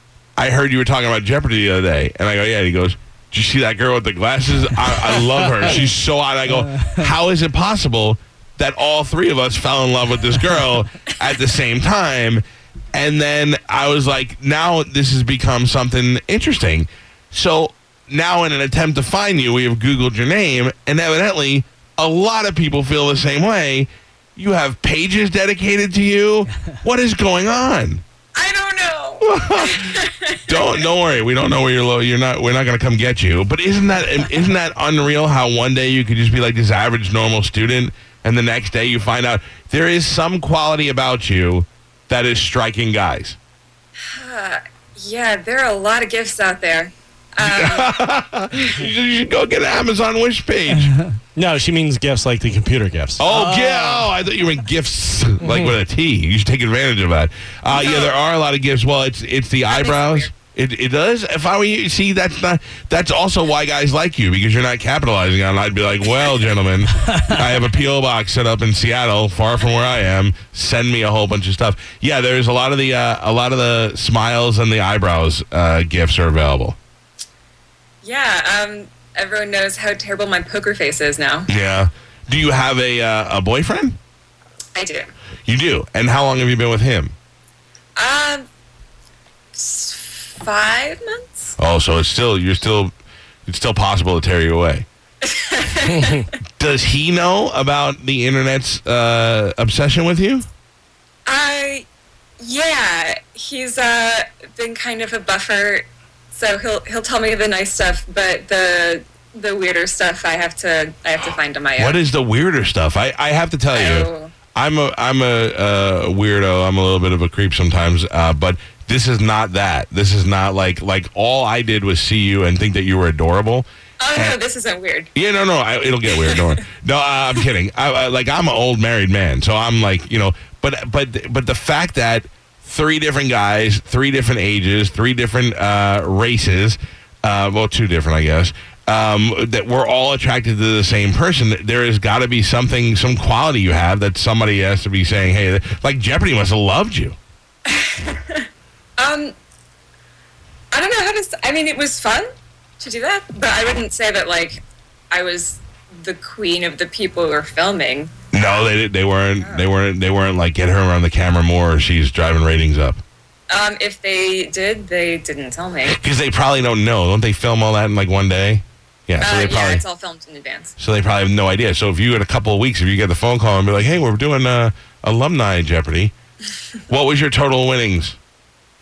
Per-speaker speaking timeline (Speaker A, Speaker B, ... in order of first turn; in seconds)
Speaker A: 0.4-28.0, 29.2-29.9, 30.5-43.4, 47.4-51.0, 53.2-76.8, 81.5-84.0, 85.5-87.1, 91.6-92.9, 93.5-94.8, 96.6-100.5, 111.8-124.4, 125.1-147.2, 158.3-163.0, 165.8-169.8, 170.8-176.1, 176.9-178.2
Speaker B: 28.3-30.8, 44.1-48.0, 57.7-58.1, 59.7-60.3, 78.0-81.5, 84.8-85.1, 88.0-88.4, 89.5-91.5, 95.2-96.2, 101.2-101.8, 102.4-112.0, 113.7-114.3, 124.0-125.1, 126.1-126.6, 147.7-148.4, 149.0-149.3, 150.7-152.3, 152.8-158.6, 159.4-159.7, 163.5-166.0, 169.2-170.7
Speaker C: 51.3-54.1, 55.4-55.7, 95.9-96.2